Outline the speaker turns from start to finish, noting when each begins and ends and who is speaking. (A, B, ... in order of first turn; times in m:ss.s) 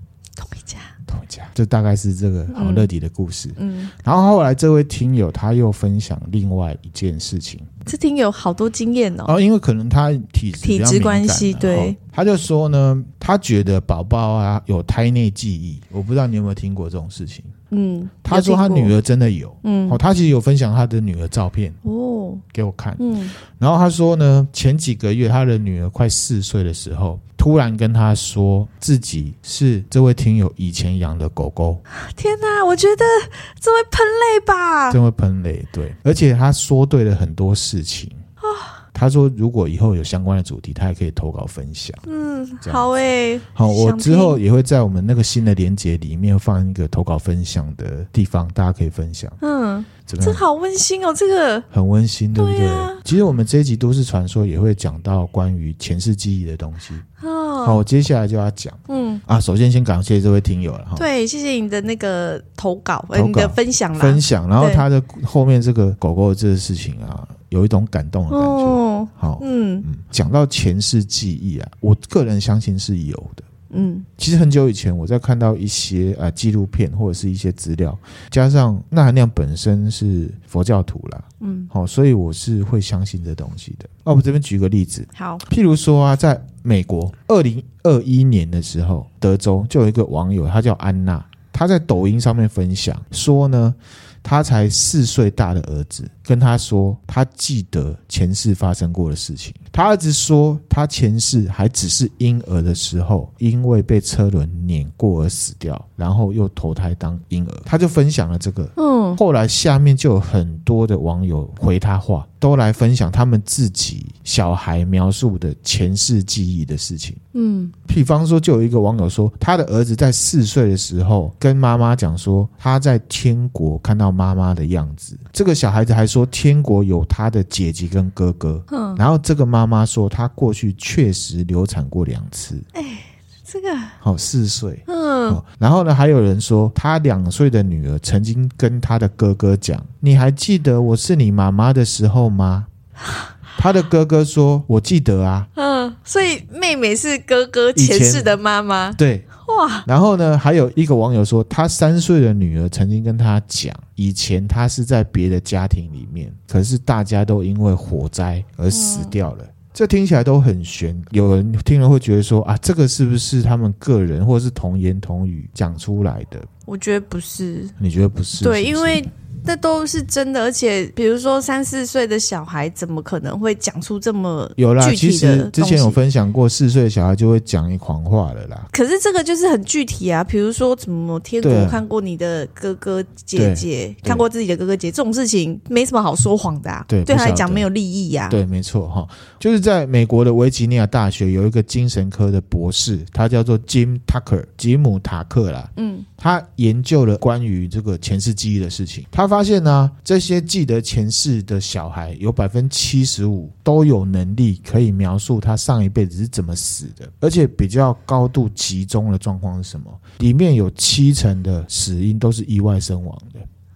0:00.4-0:00.9 A
0:01.1-0:07.7 B
0:02.5-0:02.9 A
0:03.6-0:03.9 A
0:07.9-0:09.3 A
0:09.2-0:17.5 B
0:10.6-0:12.0 A
0:17.7-0:18.9 A
0:18.2-0:21.8 B
0:19.6-0:20.0 A
0:21.8-0:22.4 A
0:22.5-0:31.8 B
0:23.0-0:23.3 A
0:31.9-0:35.0 A
0:34.9-0:38.2 B
0:38.4-0:38.8 A
0:38.9-0:42.0 B
0:42.1-0:44.4 A
0:42.6-0:42.9 B
0:43.5-0:49.4 B
0:49.4-0:51.7 A
0:50.1-0:50.4 B
0:51.7-0:57.0 B
0:52.4-0:53.0 A
0:57.2-0:57.8 A
0:57.6-1:01.1 B
0:58.9-0:59.2 A
1:01.0-1:04.9 A
1:03.1-1:13.5 B
1:08.3-1:09.9 A
1:13.7-1:14.1 A
1:14.2-1:57.2 B
1:21.4-1:21.7 A
1:25.1-1:25.4 A
1:48.8-1:49.2 A
1:57.3-1:57.7 A
1:57.9-2:12.7 B
2:08.7-2:09.0 A
2:12.8-2:14.0 A
2:14.0-2:22.7 B
2:14.9-2:15.4 A
2:23.6-2:25.5 B
2:25.6-2:29.9 A
2:27.8-2:28.4 B
2:29.0-2:29.3 B
2:29.9-2:46.5 B
2:38.7-2:39.2 A
2:46.7-2:47.8 A
2:47.8-2:49.0 B
2:48.4-2:56.0 A
2:54.6-2:58.7 B
2:58.7-3:08.4 A
3:01.4-3:01.8 B
3:03.4-3:04.2 B
3:06.9-3:07.7 B
3:08.3-3:33.5 B
3:15.8-3:16.1 A